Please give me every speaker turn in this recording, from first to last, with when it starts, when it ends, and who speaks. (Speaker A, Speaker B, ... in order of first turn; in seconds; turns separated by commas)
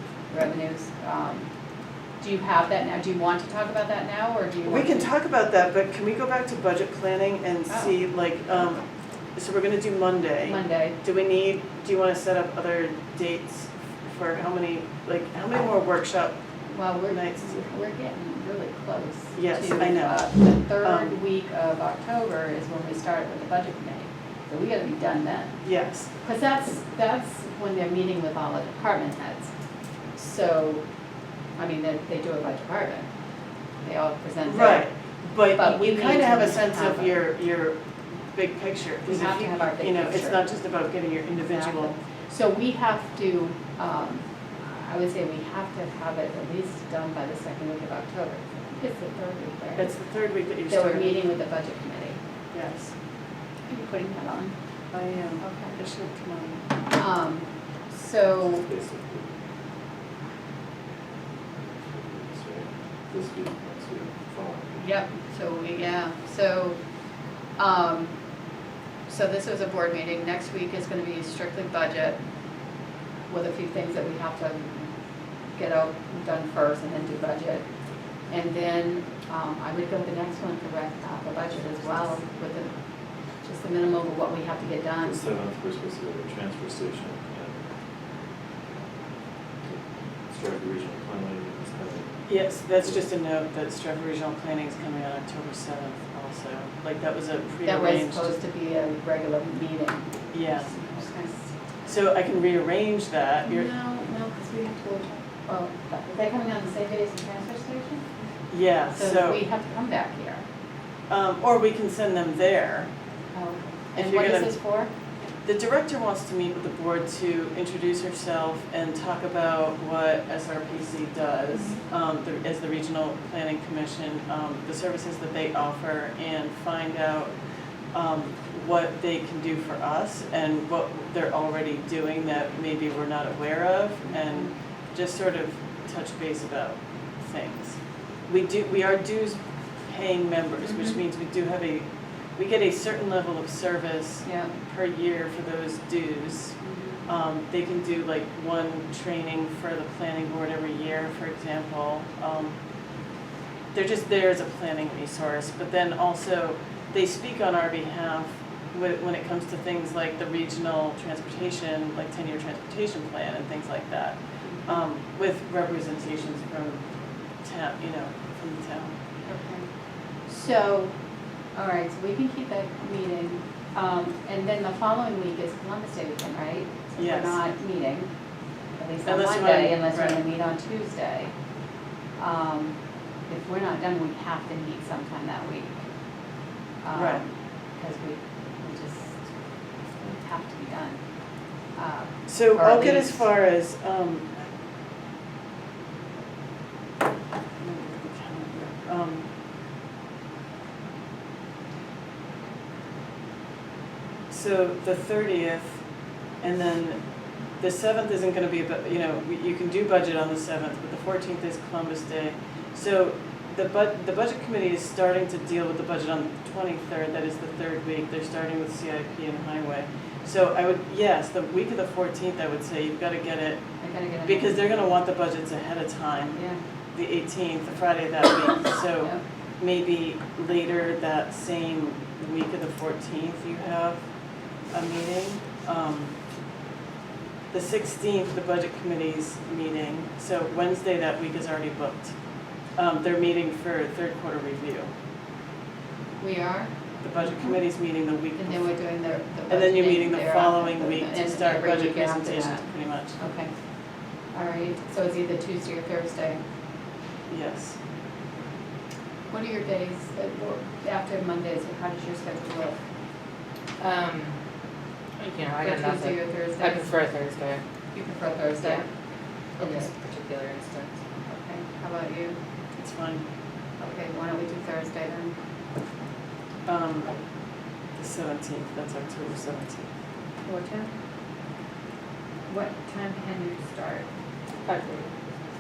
Speaker A: 0.3-1.5, Speaker A: 2.2-5.1, Speaker B: 4.7-8.8, Speaker A: 7.7-8.0, Speaker B: 9.4-16.4, Speaker A: 10.4-11.0, Speaker A: 16.7-25.6, Speaker B: 17.1-17.7, Speaker B: 19.4-21.2, Speaker B: 25.6-26.1, Speaker A: 26.2-29.5, Speaker A: 30.1-30.9, Speaker A: 31.6-33.1, Speaker A: 33.8-34.9, Speaker B: 34.5-37.8, Speaker A: 35.6-37.2, Speaker B: 38.3-42.0, Speaker A: 39.1-40.5, Speaker A: 41.4-49.9, Speaker B: 49.8-51.2, Speaker A: 50.7-52.2, Speaker B: 52.5-52.9, Speaker A: 53.7-54.5, Speaker B: 54.9-56.6, Speaker A: 55.4-55.8, Speaker A: 56.9-58.7, Speaker C: 58.5-59.3, Speaker C: 61.8-64.8, Speaker A: 64.8-66.8, Speaker A: 67.6-68.2, Speaker A: 69.1-72.2, Speaker A: 73.3-74.9, Speaker A: 75.5-77.7, Speaker A: 78.3-82.8, Speaker A: 83.4-85.2, Speaker C: 85.0-87.6, Speaker C: 89.7-93.1, Speaker B: 92.3-98.3, Speaker A: 97.6-101.5, Speaker B: 100.3-100.7, Speaker B: 101.8-103.7, Speaker A: 103.5-108.2, Speaker B: 108.5-109.4, Speaker A: 108.9-110.5, Speaker B: 111.1-112.9, Speaker A: 113.3-114.9, Speaker B: 114.0-114.6, Speaker B: 115.4-127.3, Speaker B: 127.9-141.8, Speaker A: 134.1-134.5, Speaker A: 140.6-141.0, Speaker B: 142.4-152.6, Speaker A: 144.2-144.5, Speaker A: 146.6-147.0, Speaker B: 153.7-166.9, Speaker A: 164.4-164.8, Speaker B: 167.4-168.9, Speaker A: 169.2-169.7, Speaker A: 170.2-171.0, Speaker A: 171.5-178.1, Speaker B: 177.0-177.4, Speaker A: 178.8-181.3, Speaker B: 179.1-180.2, Speaker A: 182.2-182.8, Speaker A: 183.3-185.9, Speaker A: 186.8-189.2, Speaker B: 186.9-187.2, Speaker A: 190.0-191.0, Speaker A: 191.7-193.3, Speaker B: 192.3-194.4, Speaker B: 197.6-199.3, Speaker B: 204.3-205.8, Speaker B: 206.4-223.6, Speaker A: 223.8-224.6, Speaker B: 224.2-234.0, Speaker A: 226.3-226.6, Speaker B: 234.7-236.1, Speaker B: 237.5-242.1, Speaker B: 242.8-244.9, Speaker A: 246.2-246.7, Speaker B: 247.0-248.7, Speaker A: 247.2-247.6, Speaker A: 248.4-253.5, Speaker B: 249.5-253.2, Speaker A: 254.3-256.4, Speaker B: 257.3-257.8, Speaker A: 259.3-262.8, Speaker D: 263.8-264.4, Speaker D: 265.2-267.6, Speaker A: 265.6-266.9, Speaker A: 267.9-268.9, Speaker D: 268.6-268.9, Speaker D: 269.6-271.0, Speaker A: 269.6-269.9, Speaker A: 271.3-272.4, Speaker B: 272.8-273.2, Speaker A: 273.8-275.4, Speaker B: 276.7-277.1, Speaker B: 278.0-279.9, Speaker A: 280.5-280.9, Speaker A: 282.5-284.1, Speaker D: 284.6-285.1